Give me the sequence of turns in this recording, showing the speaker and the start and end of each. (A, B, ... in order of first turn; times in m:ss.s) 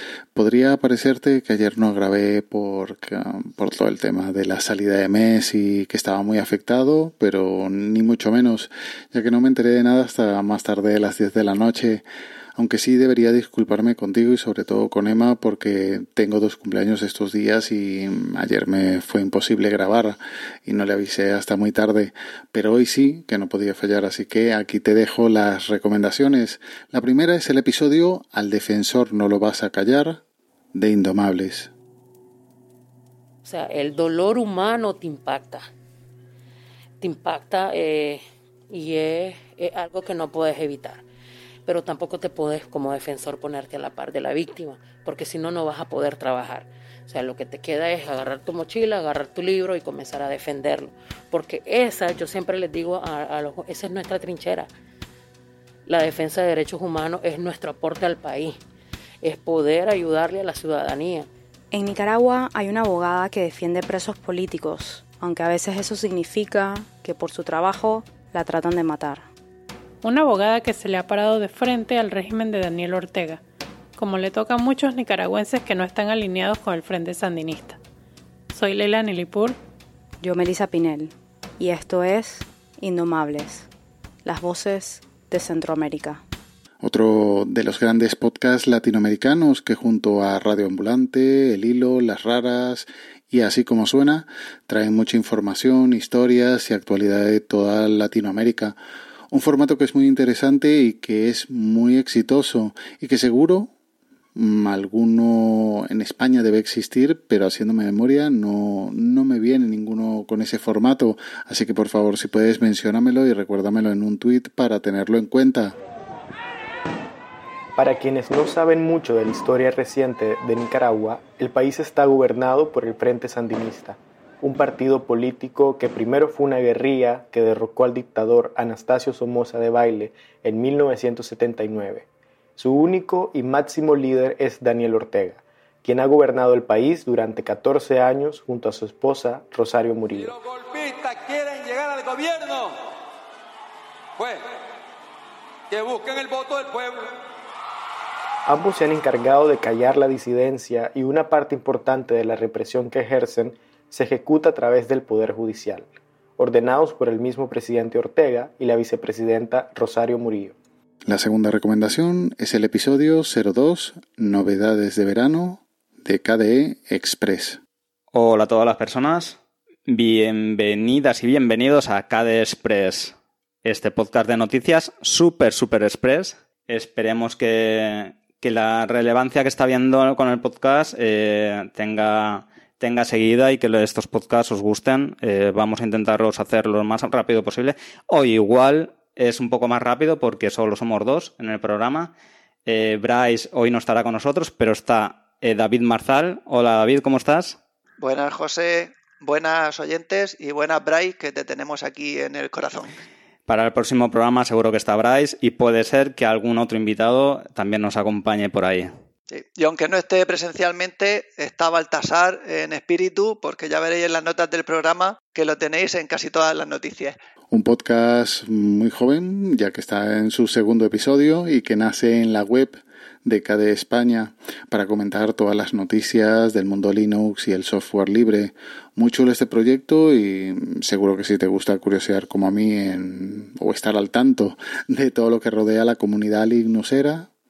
0:00.3-0:12.0 A
0:12.6-0:30.2 A
0:30.7-0:31.7 A
0:33.4-0:35.6 B
0:37.0-0:41.0 B
0:41.7-0:54.7 B
0:55.9-0:58.6 B
0:59.2-1:01.3 B
1:01.7-1:09.3 C
1:10.0-1:13.4 D
1:14.0-1:17.8 D
1:18.5-1:19.6 D
1:20.2-1:23.7 C
1:24.2-1:26.2 C
1:26.8-1:38.8 A
1:39.3-1:43.7 A
1:44.4-1:55.7 A
1:57.8-2:12.0 E
2:12.6-2:20.4 E
2:20.5-2:22.8 F
2:25.7-2:27.0 F
2:28.5-2:35.9 E
2:36.4-2:40.6 E
2:41.1-2:47.6 A
2:48.1-3:12.1 G
3:12.7-3:17.6 G
3:18.0-3:22.9 H
3:23.5-3:28.9 G
3:29.3-3:37.2 H
3:37.5-3:57.3 A